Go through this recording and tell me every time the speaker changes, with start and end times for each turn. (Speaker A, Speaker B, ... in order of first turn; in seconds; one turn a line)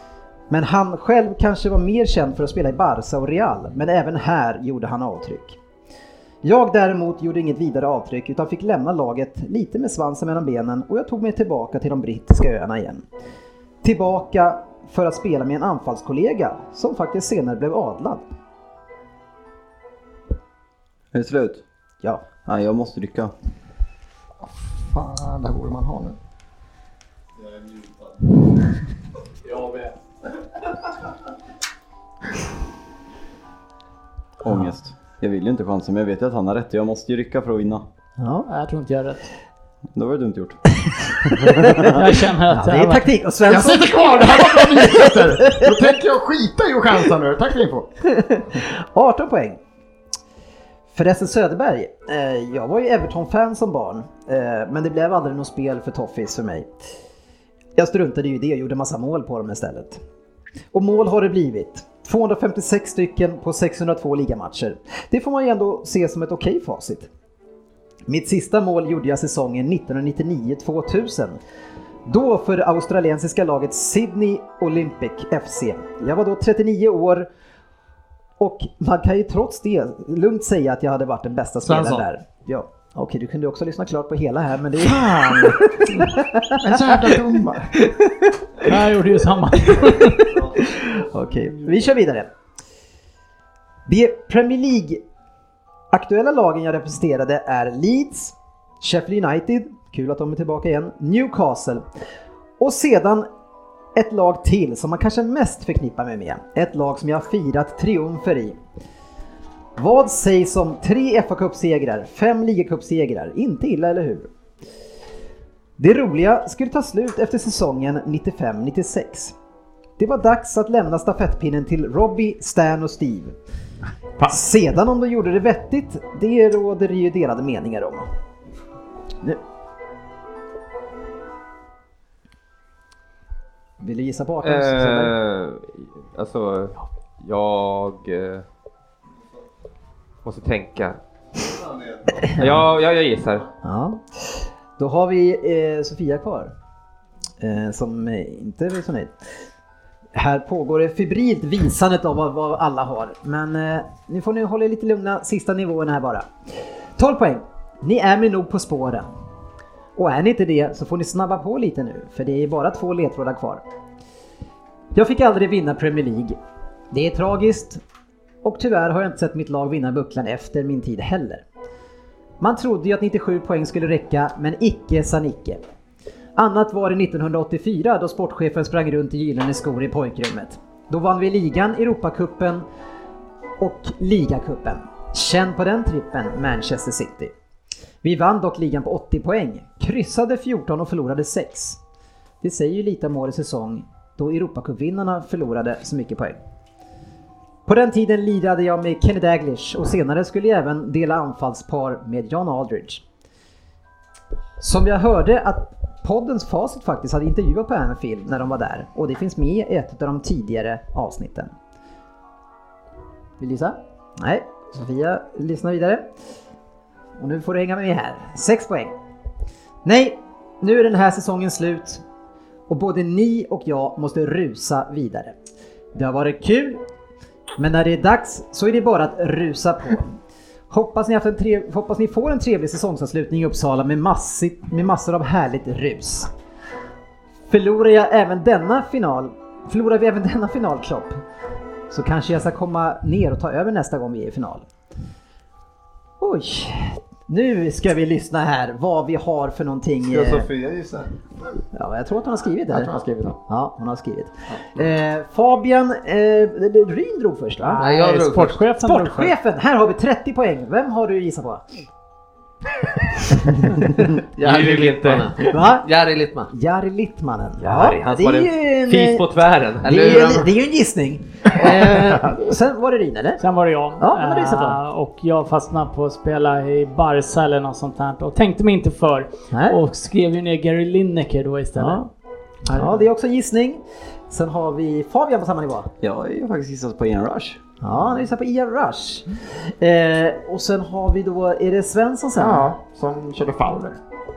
Speaker A: 0.5-5.6
Speaker A: 6.4-13.1
Speaker A: 13.8-18.2
Speaker B: 21.1-21.6
Speaker A: 22.0-22.3
Speaker B: 22.3-23.3
Speaker C: 24.4-26.2
Speaker B: 34.4-37.9
Speaker A: 34.5-34.7
Speaker A: 38.2-38.5
Speaker D: 38.5-39.2
Speaker B: 40.0-40.6
Speaker A: 40.9-41.9
Speaker B: 41.4-41.6
Speaker D: 41.8-43.0
Speaker A: 42.5-45.7
Speaker C: 43.5-47.9
Speaker A: 48.1-49.6
Speaker A: 50.9-56.7
Speaker A: 57.8-60.0
Speaker A: 60.7-67.1
Speaker A: 68.1-71.4
Speaker A: 72.0-77.3
Speaker A: 78.4-87.2
Speaker C: 81.6-82.1
Speaker C: 84.8-85.6
Speaker C: 86.6-87.7
Speaker D: 88.6-90.3
Speaker A: 90.8-92.3
Speaker A: 93.9-95.0
Speaker A: 95.9-101.8
Speaker A: 102.6-103.3
Speaker A: 104.0-108.6
Speaker A: 109.8-114.3
Speaker A: 115.8-119.3
Speaker A: 120.0-123.3
Speaker A: 124.2-128.1
Speaker A: 133.8-135.1
Speaker E: 134.4-138.4
Speaker E: 140.2-141.0
Speaker F: 141.4-142.3
Speaker A: 142.4-142.7
Speaker E: 142.4-143.5
Speaker A: 143.6-146.5
Speaker A: 147.4-149.3
Speaker A: 150.2-156.3
Speaker A: 157.0-159.1
Speaker A: 160.0-163.6
Speaker A: 164.9-166.4
Speaker A: 166.9-167.8
Speaker A: 168.4-171.4
Speaker A: 172.4-175.6
Speaker A: 176.4-182.7
Speaker A: 183.6-187.3
Speaker A: 188.0-191.8
Speaker A: 192.4-196.4
Speaker A: 197.7-203.0
Speaker A: 204.6-211.5
Speaker A: 213.4-216.1
Speaker A: 217.2-218.9
Speaker A: 219.8-222.0
Speaker A: 222.7-225.3
Speaker A: 225.9-226.8
Speaker A: 227.6-230.2
Speaker A: 230.7-236.3
Speaker A: 237.5-241.2
Speaker A: 241.9-244.7
Speaker A: 246.2-250.5
Speaker F: 250.0-251.1
Speaker A: 251.7-252.9
Speaker C: 252.7-253.4
Speaker A: 253.5-257.8
Speaker D: 257.6-259.4
Speaker G: 257.8-258.7
Speaker A: 258.8-261.7
Speaker G: 264.4-266.5
Speaker E: 264.4-265.5
Speaker A: 265.5-265.9
Speaker A: 266.5-269.2
Speaker E: 267.6-270.2
Speaker A: 269.8-273.4
Speaker G: 269.9-270.5
Speaker D: 273.4-282.0
Speaker A: 274.0-274.8
Speaker A: 279.5-279.8
Speaker A: 281.8-282.1
Speaker A: 282.7-285.9
Speaker B: 286.0-287.6
Speaker A: 287.8-292.7
Speaker C: 292.4-294.0